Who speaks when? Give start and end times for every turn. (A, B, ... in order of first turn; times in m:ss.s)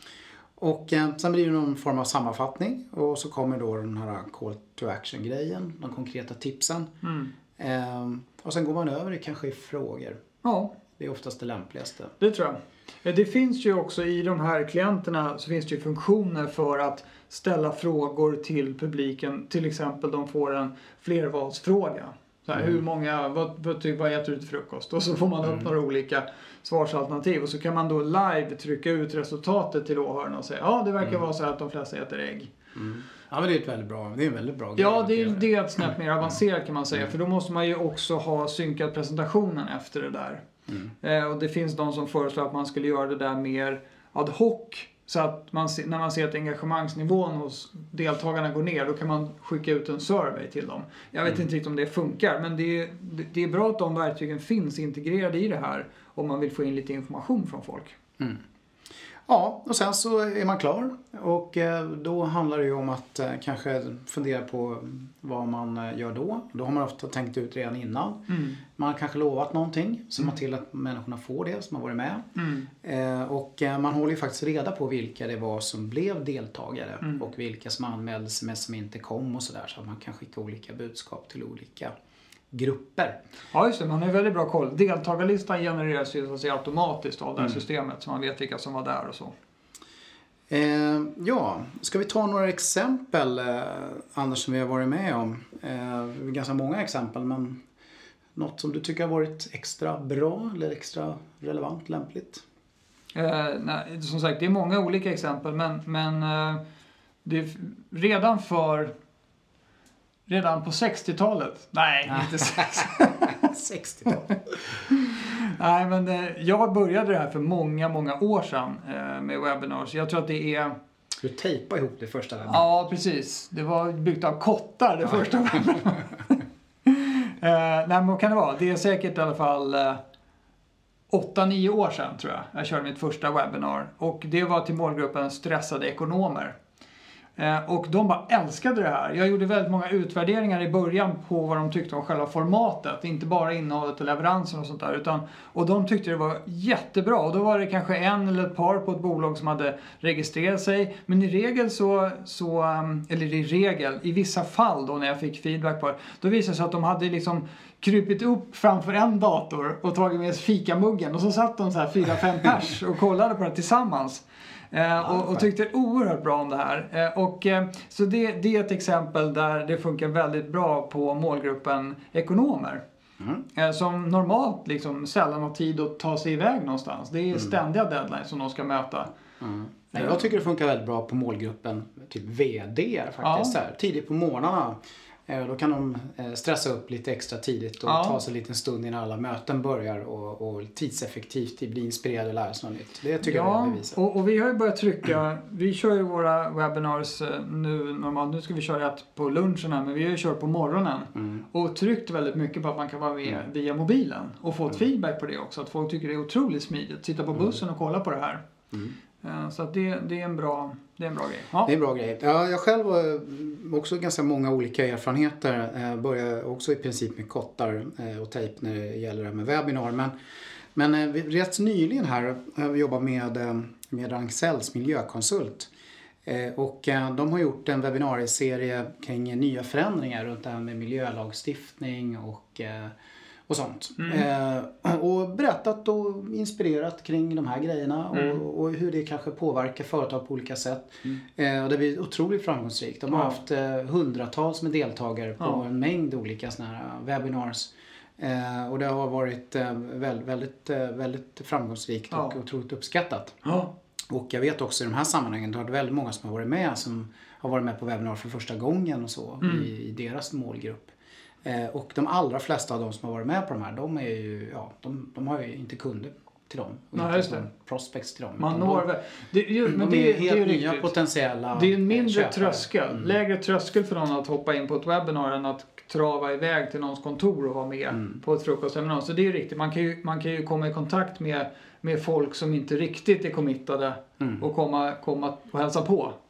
0:00.6-0:06.9 A
0:07.0-0:07.3 B
0:07.5-0:10.2 A
0:10.4-0:10.8 B
0:11.0-0:12.1 A
0:12.2-0:32.5 B
0:32.7-0:35.5 A
0:34.8-0:40.4 B
0:41.0-0:58.0 B
0:59.3-1:21.9 A
1:08.3-1:08.6 B
1:12.4-1:12.7 B
1:22.5-1:23.2 A
1:23.5-1:29.3 B
1:30.5-1:37.6 A
1:38.4-1:42.4 A
1:43.1-1:46.6 B
1:47.2-1:48.9 B
1:50.3-1:53.4 B
1:52.1-1:54.8 A
1:54.9-2:00.8 B
2:01.2-2:02.6 A
2:02.5-2:10.0 B
2:11.1-2:16.6 B
2:17.4-2:52.8 B
2:45.0-2:45.4 A
2:53.5-2:59.1 B
2:59.4-3:14.0 A
3:03.2-3:03.5 B
3:07.8-3:08.2 B
3:13.2-3:28.4 B
3:29.2-3:31.7 B
3:31.6-3:40.1 A
3:40.7-3:45.7 A
3:46.2-3:52.9 A
3:53.5-4:13.4 A
3:54.0-3:54.2 B
3:58.1-3:58.4 B
4:03.1-4:03.4 B
4:12.1-4:12.4 B
4:13.4-4:13.7 B
4:14.1-4:20.9 A
4:19.4-4:19.7 B
4:21.4-4:28.8 A
4:26.9-4:27.4 B
4:28.4-4:30.9 B
4:29.6-4:33.1 A
4:31.5-4:46.2 B
4:37.9-4:38.2 A